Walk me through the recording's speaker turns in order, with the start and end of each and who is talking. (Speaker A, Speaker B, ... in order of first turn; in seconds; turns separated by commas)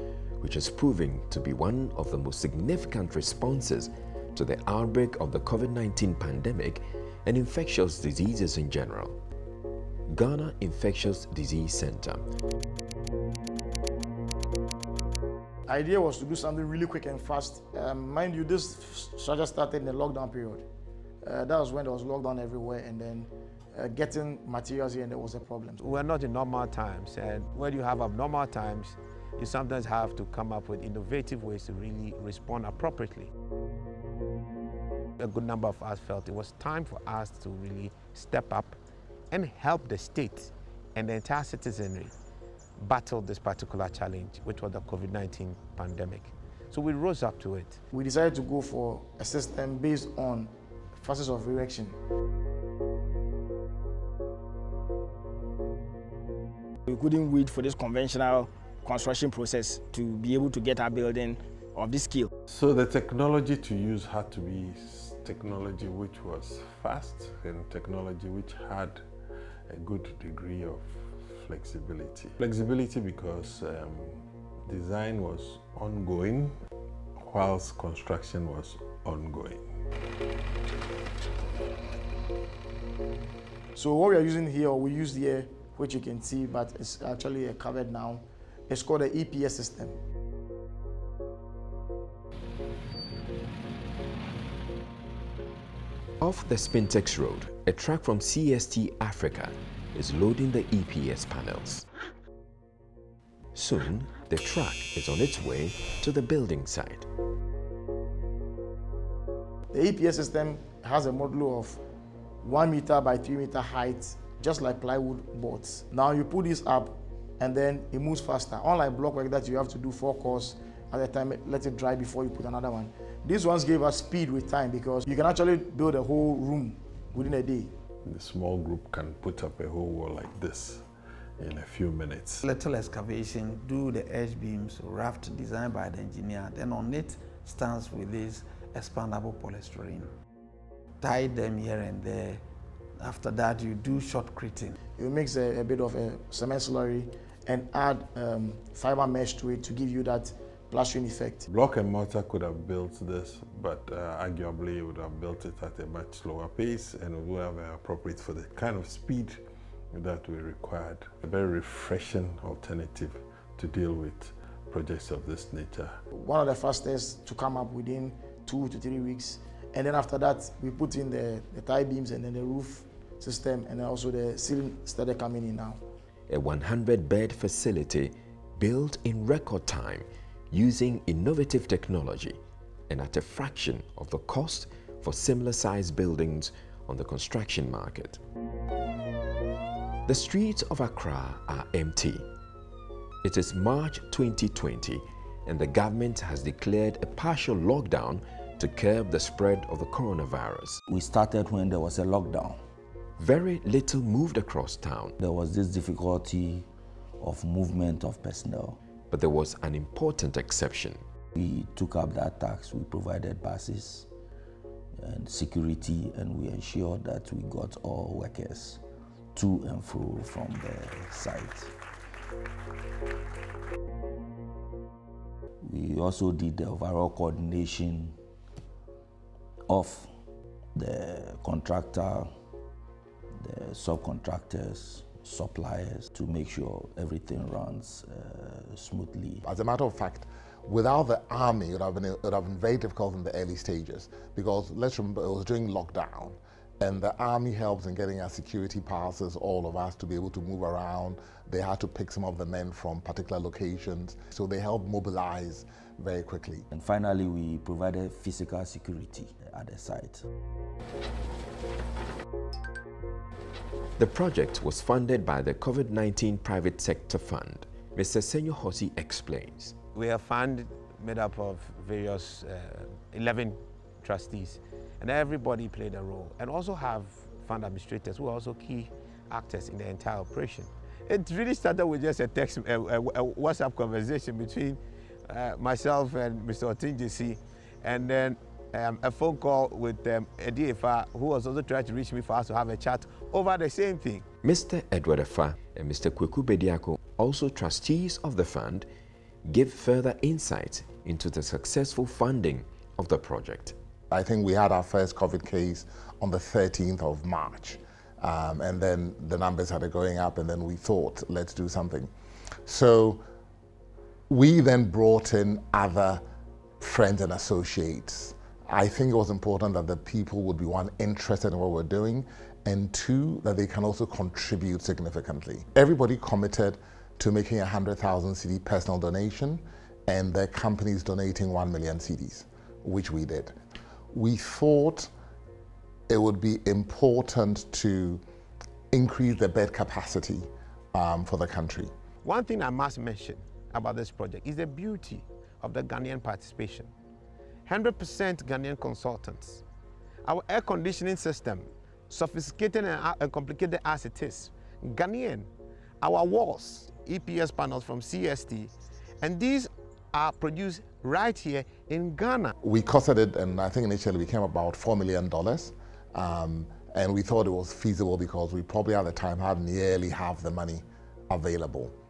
Speaker A: 0.4-9.2, Speaker A: 10.1-12.2, Speaker B: 15.7-20.6, Speaker B: 21.2-25.9, Speaker C: 25.8-33.3, Speaker C: 35.2-38.8, Speaker C: 39.3-42.1, Speaker C: 42.8-47.8, Speaker B: 47.9-52.0, Speaker D: 56.9-62.3, Speaker E: 62.5-69.0, Speaker E: 69.7-76.6, Speaker E: 77.2-79.7, Speaker B: 83.7-90.0, Speaker A: 96.2-101.8, Speaker A: 103.5-107.1, Speaker B: 109.7-111.8, Speaker B: 112.4-127.7, Speaker E: 128.0-130.8, Speaker E: 131.4-132.5, Speaker F: 132.4-140.1, Speaker F: 141.0-142.4, Speaker F: 143.0-144.8, Speaker B: 145.0-151.4, Speaker E: 151.5-166.0, Speaker B: 166.1-175.8, Speaker A: 176.3-188.2, Speaker A: 190.1-192.2, Speaker A: 193.2-200.8, Speaker G: 200.9-202.6, Speaker A: 203.2-205.2, Speaker G: 205.2-206.7, Speaker G: 207.2-208.8, Speaker A: 209.1-211.0, Speaker G: 211.3-214.1, Speaker G: 215.0-218.8, Speaker G: 219.3-221.7, Speaker G: 225.6-228.2, Speaker G: 229.7-230.1, Speaker G: 230.7-232.3, Speaker G: 233.4-239.4, Speaker H: 239.4-256.7, Speaker G: 256.7-260.3, Speaker A: 264.0-269.7, Speaker C: 269.9-294.2, Speaker A: 294.4-298.9, Speaker A: 299.4-303.7, Speaker H: 304.1-312.1, Speaker H: 312.6-313.2, Speaker H: 314.3-316.2, Speaker H: 316.8-333.5, Speaker H: 334.1-335.1, Speaker H: 336.1-338.2, Speaker H: 338.9-341.9, Speaker C: 342.2-346.9, Speaker C: 347.6-349.6, Speaker C: 350.2-355.5, Speaker C: 356.0-362.5, Speaker H: 362.6-371.9